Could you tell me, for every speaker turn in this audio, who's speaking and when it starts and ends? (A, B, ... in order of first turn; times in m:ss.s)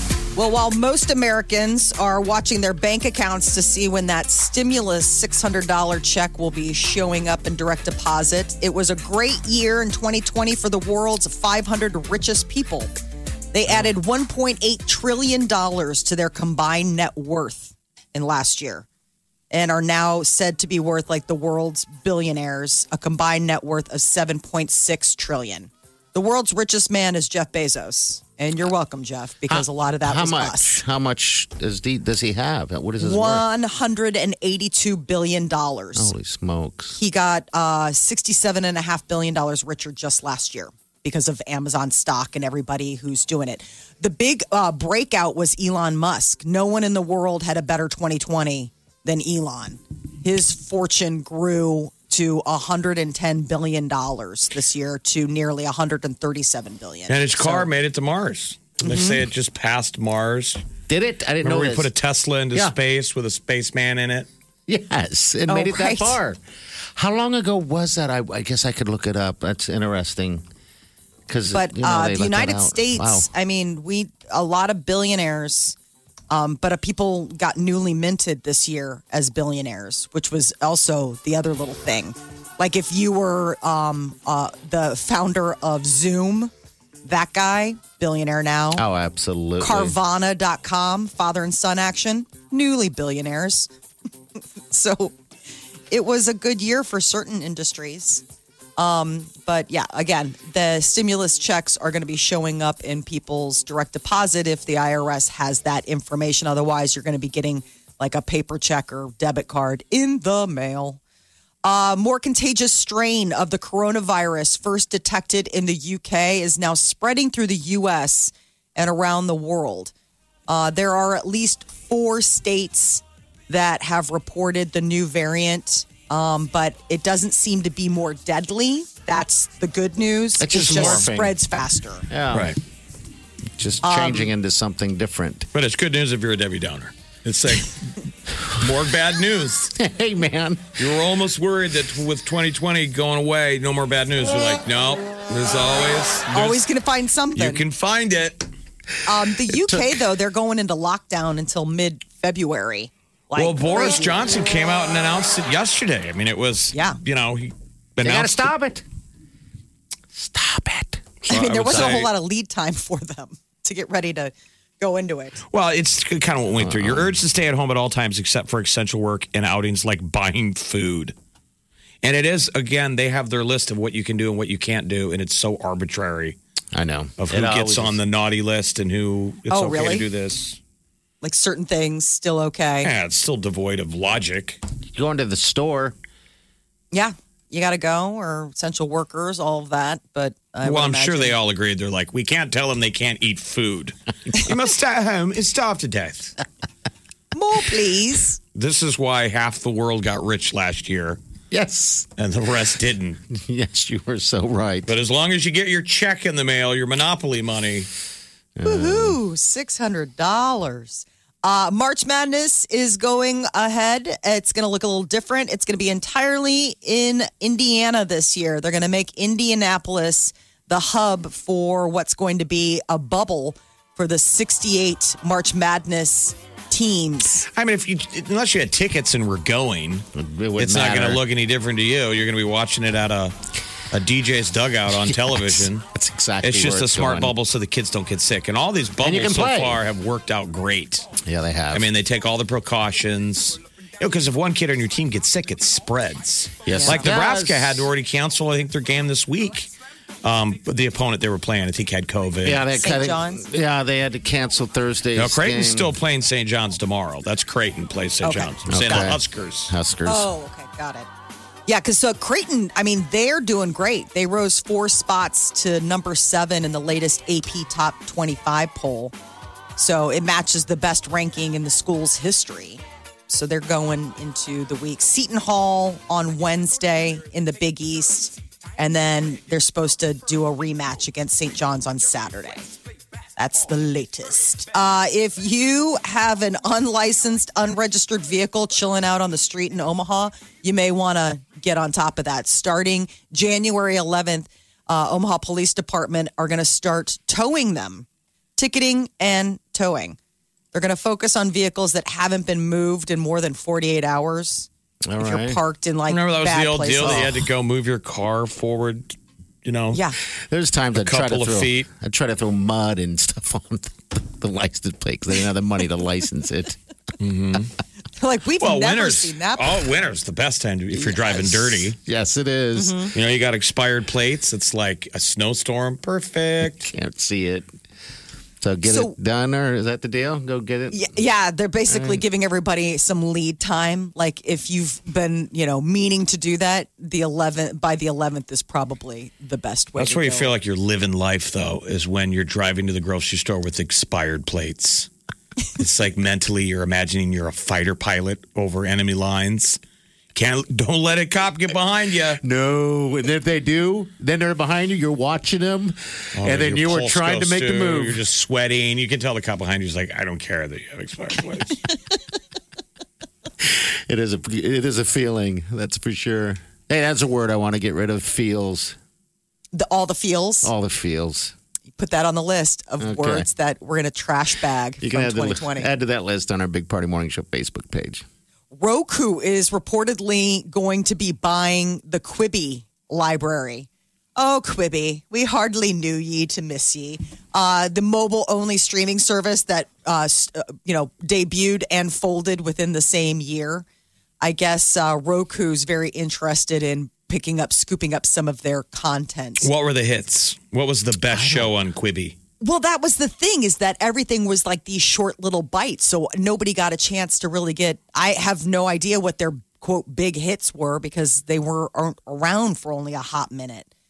0:00.3-0:12.9 A
0:13.5-0:18.8 A
0:19.5-0:30.8 A
0:29.5-0:33.4 B
0:33.0-0:36.1 A
0:35.9-0:37.0 B
0:36.9-0:57.7 A
0:57.1-1:00.6 C
0:58.8-0:59.2 A
1:00.9-1:01.9 B
1:01.4-1:04.3 C
1:04.7-1:06.4 B
1:05.5-1:06.2 A
1:06.9-1:10.4 B
1:11.3-1:13.3 B
1:11.5-1:15.8 A
1:16.3-1:26.5 A
1:27.0-1:28.8 A
1:28.7-1:30.0 B
1:29.6-1:33.7 A
1:34.7-1:35.1 A
1:35.9-1:38.2 A
1:38.8-1:51.0 A
1:51.6-1:59.9 A
2:00.5-2:12.1 A
2:10.4-2:11.4 B
2:10.6-2:11.0 C
2:12.1-2:12.6 B
2:12.3-2:12.6 C
2:13.6-2:15.5 B
2:13.8-2:14.3 A
2:15.5-2:19.7 C
2:19.7-2:20.9 B
2:20.8-2:26.6 C
2:26.3-2:27.6 A
2:27.3-2:28.5 C
2:29.0-2:34.1 A
2:29.5-2:30.0 B
2:33.3-2:38.5 C
2:36.7-2:37.0 A
2:38.0-2:38.8 B
2:40.1-2:41.0 B
2:41.3-2:42.1 C
2:41.3-2:45.4 A
2:45.5-2:51.1 C
2:46.6-2:47.2 B
2:52.0-2:56.4 C
2:56.7-2:58.0 B
2:57.2-3:00.6 C
2:59.5-3:00.0 A
3:01.2-3:02.9 A
3:02.8-3:04.6 C
3:04.9-3:06.0 B
3:06.9-3:11.4 A
3:10.6-3:16.4 C
3:17.3-3:18.4 A
3:18.5-3:21.2 C
3:21.5-3:22.1 B
3:22.2-3:23.2 C
3:23.3-3:24.9 B
3:24.8-3:27.9 C
3:28.6-3:29.2 B
3:28.6-3:47.4 A
3:47.5-3:50.0 C
3:50.1-3:51.2 B
3:50.6-3:53.3 C
3:53.9-3:55.8 C
3:54.9-3:57.3 B
3:56.4-4:01.1 C
3:59.0-3:59.8 B
4:01.2-4:01.9 B
4:01.7-4:09.7 C
4:06.6-4:07.9 B
4:06.7-4:07.0 A
4:10.2-4:12.7 C
4:12.4-4:15.9 B
4:12.8-4:13.4 A
4:15.1-4:19.7 C
4:18.2-4:18.5 A
4:18.7-4:20.3 B
4:20.0-4:21.1 A
4:21.7-4:29.1 A
4:29.8-4:42.7 A
4:43.4-5:00.2 A
5:00.7-5:04.7 A
5:05.0-5:05.6 B
5:05.2-5:07.2 A
5:06.1-5:10.0 C
5:07.0-5:07.4 B
5:10.5-5:16.8 B
5:11.0-5:11.9 C
5:17.2-5:17.7 C
5:18.2-5:19.8 A
5:18.6-5:22.0 C
5:20.9-5:23.1 B
5:22.7-5:23.1 A
5:23.1-5:26.9 C
5:26.8-5:27.7 B
5:28.6-5:31.1 B
5:28.8-5:29.1 A
5:30.9-5:40.5 A
5:31.9-5:32.2 B
5:40.0-5:45.1 C
5:45.8-5:49.8 C
5:50.3-5:52.4 C
5:52.4-5:58.2 B
5:56.4-6:01.8 C
6:03.6-6:09.0 B
6:09.7-6:10.7 A
6:10.6-6:11.5 B
6:12.0-6:15.9 A
6:13.0-6:13.5 B
6:15.0-6:18.2 B
6:18.7-6:33.8 A
6:34.4-6:39.7 A
6:39.6-6:42.4 C
6:41.3-6:41.7 B
6:42.6-6:53.9 A